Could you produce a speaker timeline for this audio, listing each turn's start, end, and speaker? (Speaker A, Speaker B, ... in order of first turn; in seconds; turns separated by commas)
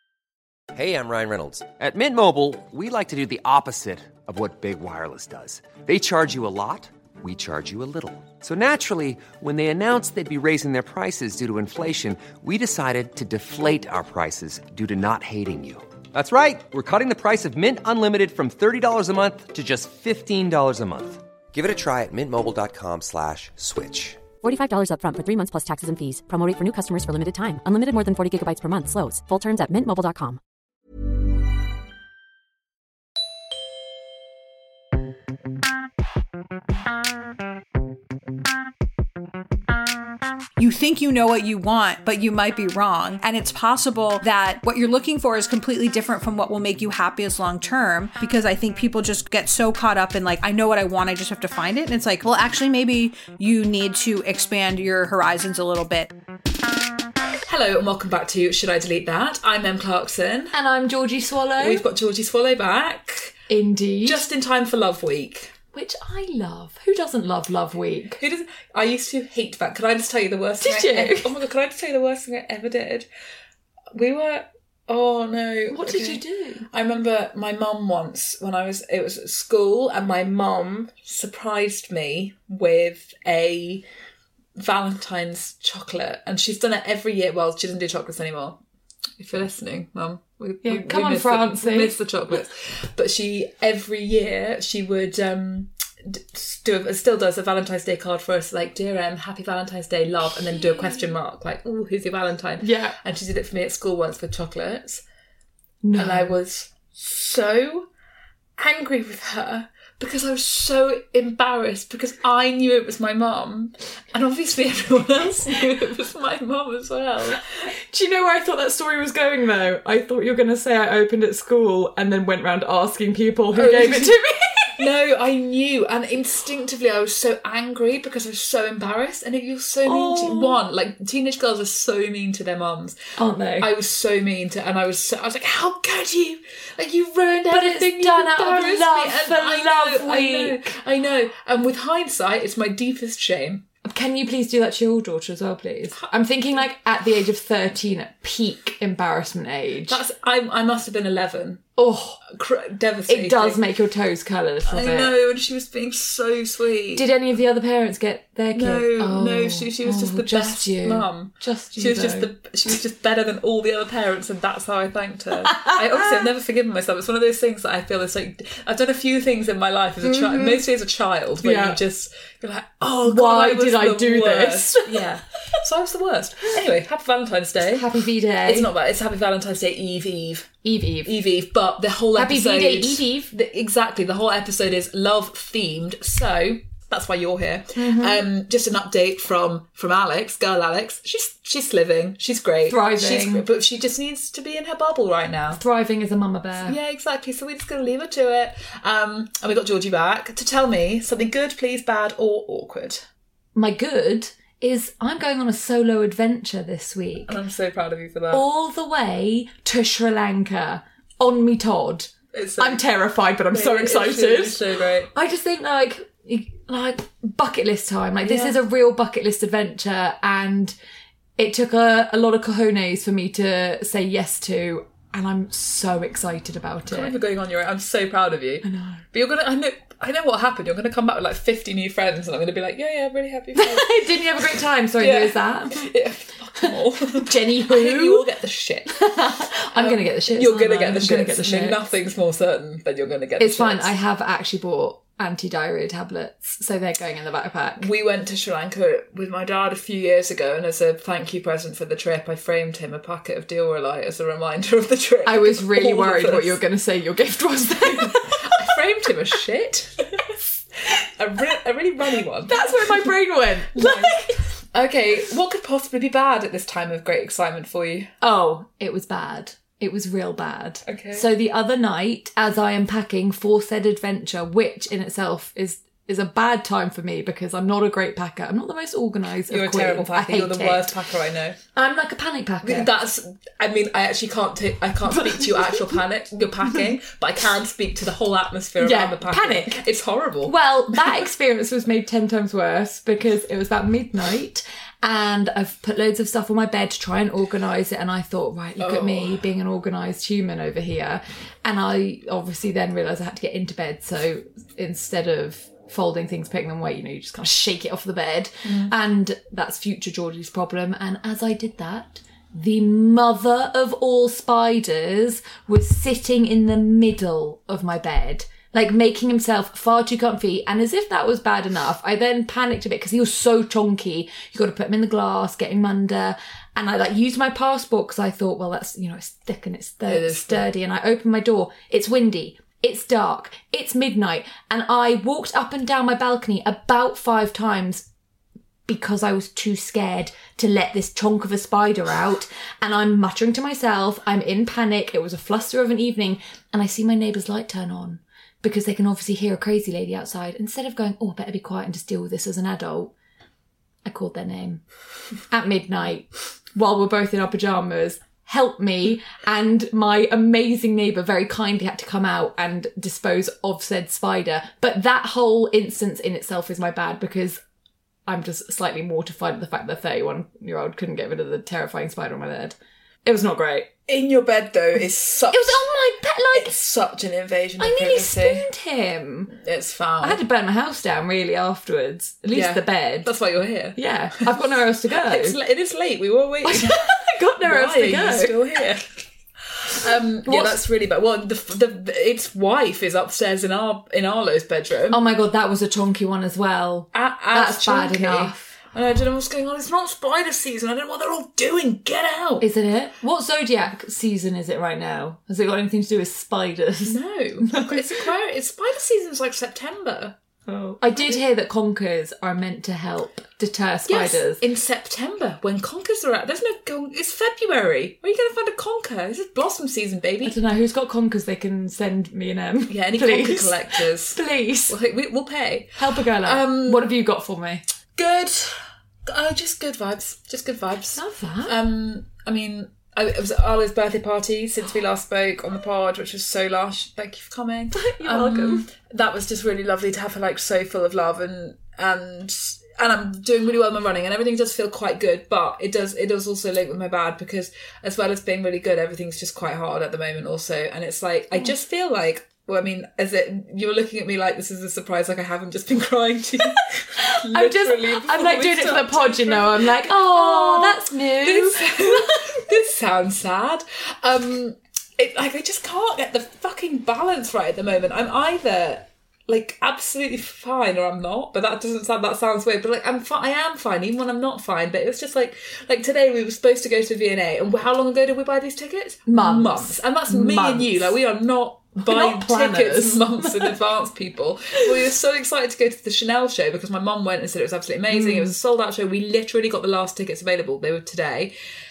Speaker A: 0.7-24.3, Speaker B: 24.4-30.4, Speaker C: 40.6-56.1, Speaker D: 57.5-60.5, Speaker E: 60.5-61.8, Speaker D: 61.6-63.4, Speaker E: 63.5-64.2, Speaker D: 64.0-65.5, Speaker E: 65.7-68.2, Speaker D: 68.2-73.1, Speaker E: 70.6-71.3, Speaker D: 73.9-83.8, Speaker E: 75.7-76.7, Speaker D: 84.5-88.6, Speaker D: 89.2-105.0, Speaker E: 90.6-91.9, Speaker E: 102.6-103.0, Speaker E: 105.8-106.3, Speaker D: 106.0-107.9, Speaker D: 108.6-117.4, Speaker E: 117.9-124.8, Speaker D: 123.5-124.2, Speaker D: 124.8-133.0, Speaker E: 129.8-130.6, Speaker E: 133.2-133.7, Speaker D: 133.6-143.7, Speaker E: 137.5-140.8, Speaker E: 143.8-150.0, Speaker D: 149.9-151.7, Speaker E: 151.8-152.2, Speaker D: 152.3-153.6, Speaker E: 153.1-155.1, Speaker D: 154.6-157.1, Speaker E: 156.9-162.3, Speaker D: 158.5-177.8, Speaker E: 170.0-170.6, Speaker E: 171.4-171.8, Speaker E: 173.0-175.0, Speaker E: 177.7-178.7, Speaker D: 178.4-195.6, Speaker E: 180.6-181.1, Speaker E: 182.1-183.3, Speaker E: 187.8-188.2, Speaker E: 192.7-193.4, Speaker E: 195.6-196.8, Speaker D: 196.7-203.0, Speaker E: 203.5-207.4, Speaker D: 207.2-208.4, Speaker E: 208.3-220.8, Speaker D: 212.3-212.9, Speaker D: 213.5-215.1, Speaker D: 218.2-218.6, Speaker E: 221.4-227.1, Speaker D: 226.9-234.2, Speaker E: 228.6-229.0, Speaker E: 233.5-235.8, Speaker D: 235.0-243.9, Speaker E: 236.6-238.2, Speaker E: 239.0-241.8, Speaker E: 243.4-247.9, Speaker D: 247.8-256.6, Speaker E: 255.2-258.5, Speaker D: 257.8-260.4, Speaker D: 261.2-263.1, Speaker E: 262.5-264.5, Speaker D: 263.7-268.1, Speaker E: 268.2-280.9, Speaker D: 270.9-271.3, Speaker D: 279.5-281.6, Speaker E: 281.7-282.9, Speaker D: 282.6-291.2, Speaker E: 285.2-285.8, Speaker E: 288.8-289.8, Speaker E: 290.4-338.1, Speaker D: 298.8-299.4, Speaker D: 308.6-308.9, Speaker D: 330.1-330.7, Speaker E: 338.9-353.1, Speaker E: 354.0-354.8, Speaker E: 355.4-367.6, Speaker E: 368.3-373.9, Speaker D: 374.1-375.9, Speaker E: 375.5-376.7, Speaker D: 376.5-378.7, Speaker E: 377.8-379.5, Speaker D: 379.5-380.4, Speaker E: 380.2-383.3, Speaker D: 382.5-384.6, Speaker E: 383.9-385.6, Speaker D: 385.2-389.2, Speaker E: 386.6-388.6, Speaker D: 389.8-395.2, Speaker E: 390.4-390.8, Speaker E: 395.1-398.7, Speaker D: 397.1-402.6, Speaker E: 402.6-408.2, Speaker D: 407.1-411.4, Speaker E: 411.0-414.6, Speaker D: 414.1-420.6, Speaker E: 420.4-424.9, Speaker D: 422.9-427.1, Speaker E: 426.0-427.8, Speaker D: 428.2-491.5, Speaker E: 431.1-431.7, Speaker E: 437.9-438.9, Speaker E: 457.2-462.7, Speaker E: 479.3-481.1, Speaker E: 482.0-483.8, Speaker E: 488.1-488.5